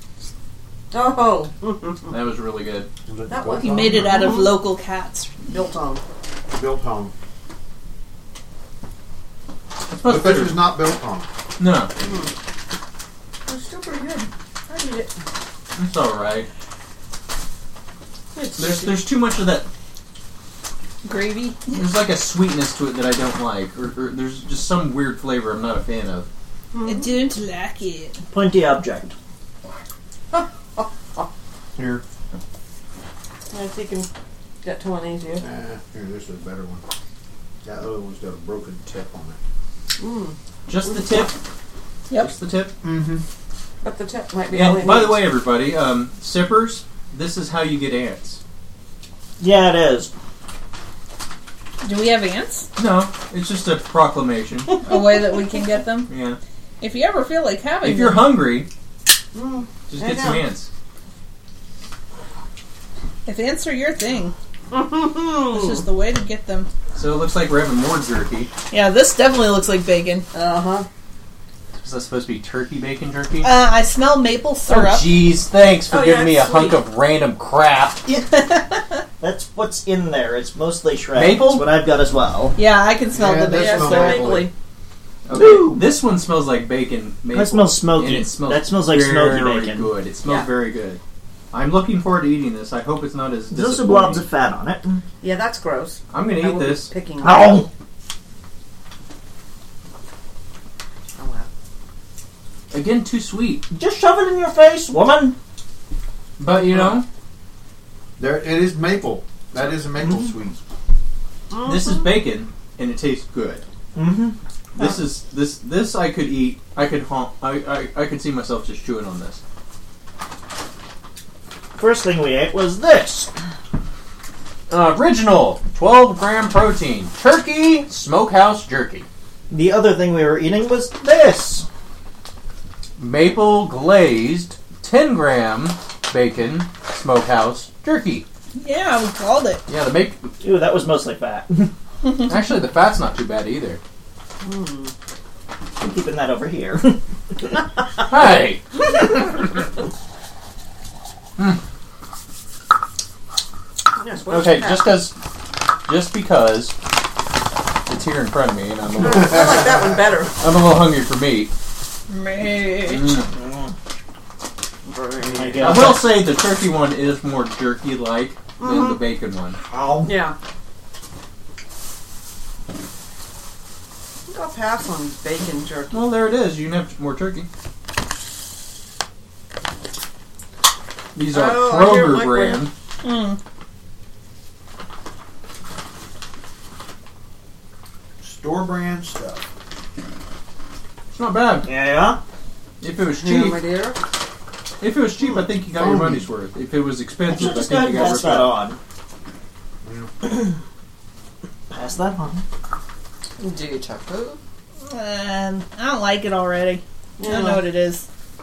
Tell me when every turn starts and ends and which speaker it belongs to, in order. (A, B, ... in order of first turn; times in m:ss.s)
0:00.9-0:02.2 A
0:02.1-0:02.9 B
0:03.1-0:04.5 C
0:03.3-0:04.5 A
0:03.6-0:05.3 D
0:05.5-0:06.0 A
0:06.5-0:07.1 C
0:09.9-0:10.7 B
0:10.0-0:11.3 C
0:11.6-0:11.9 B
0:12.0-0:12.3 A
0:13.5-0:15.1 A
0:15.7-0:16.5 B
0:18.3-0:19.0 A
0:18.6-0:19.7 B
0:21.0-0:21.8 D
0:21.7-0:26.3 B
0:26.7-0:27.2 A
0:26.8-0:28.2 D
0:28.3-0:29.1 E
0:30.3-0:31.2 A
0:31.8-0:32.0 C
0:33.5-0:34.1 A
0:34.6-0:35.4 A
0:35.3-0:36.8 C
0:37.6-0:39.4 C
0:40.0-0:41.1 A
0:40.7-0:41.4 B
0:42.1-0:42.7 B
0:42.8-0:43.2 C
0:43.8-0:45.3 A
0:44.5-0:48.4 B
0:49.4-0:50.1 E
0:51.8-0:52.7 D
0:52.8-0:54.8 B
0:54.8-0:56.1 D
0:54.9-0:55.2 A
0:56.1-0:56.4 B
0:56.8-0:58.4 D
0:57.8-0:58.7 B
0:59.3-1:00.4 A
0:59.9-1:00.7 B
1:03.2-1:04.3 D
1:04.7-1:05.8 A
1:05.5-1:06.7 D
1:06.9-1:08.5 B
1:08.7-1:10.2 D
1:10.3-1:10.9 A
1:11.7-1:13.5 B
1:13.4-1:15.2 D
1:14.7-1:18.1 B
1:15.9-1:16.8 A
1:18.3-1:18.8 D
1:19.2-1:22.6 E
1:21.1-1:21.7 B
1:22.6-1:24.3 D
1:23.1-1:24.5 C
1:23.5-1:24.5 A
1:25.3-1:31.0 B
1:25.3-1:25.9 E
1:27.3-1:29.9 E
1:30.2-1:30.5 A
1:31.5-1:34.2 B
1:33.5-1:35.0 E
1:35.2-1:37.7 A
1:36.1-1:36.9 B
1:37.2-1:37.7 E
1:41.2-1:41.5 A
1:42.7-1:43.6 B
1:43.7-1:45.4 E
1:46.4-1:47.0 B
1:48.2-1:50.6 C
1:51.5-1:52.1 A
1:51.6-1:53.6 B
1:53.9-1:54.4 E
1:54.8-1:59.4 B
2:01.7-2:03.3 E
2:04.7-2:09.1 B
2:09.5-2:11.6 E
2:13.0-2:18.2 B
2:18.6-2:19.6 D
2:19.7-2:20.3 B
2:20.4-2:21.7 E
2:22.2-2:23.8 B
2:24.4-2:24.9 A
2:25.8-2:27.5 E
2:28.1-2:28.9 B
2:34.0-2:35.1 A
2:34.3-2:35.2 B
2:35.8-2:36.7 B
2:37.9-2:39.8 B
2:39.0-2:40.3 A
2:40.4-2:41.5 B
2:42.1-2:43.2 D
2:42.8-2:43.3 B
2:43.3-2:43.7 E
2:44.8-2:45.9 A
2:45.3-2:46.2 E
2:45.6-2:49.6 B
2:48.6-2:49.0 A
2:49.6-2:50.2 E
2:50.0-2:50.3 A
2:54.3-2:56.0 A
2:55.9-2:57.5 B
3:01.1-3:02.7 B
3:01.3-3:02.7 A
3:03.0-3:03.4 D
3:08.2-3:09.4 C
3:11.1-3:11.7 B
3:11.6-3:12.2 E
3:12.8-3:13.6 B
3:13.1-3:14.0 A
3:14.8-3:18.6 B
3:15.8-3:16.1 C
3:17.3-3:18.8 E
3:19.8-3:20.3 C
3:21.7-3:22.4 E
3:23.4-3:24.4 A
3:24.9-3:28.0 D
3:27.2-3:27.6 A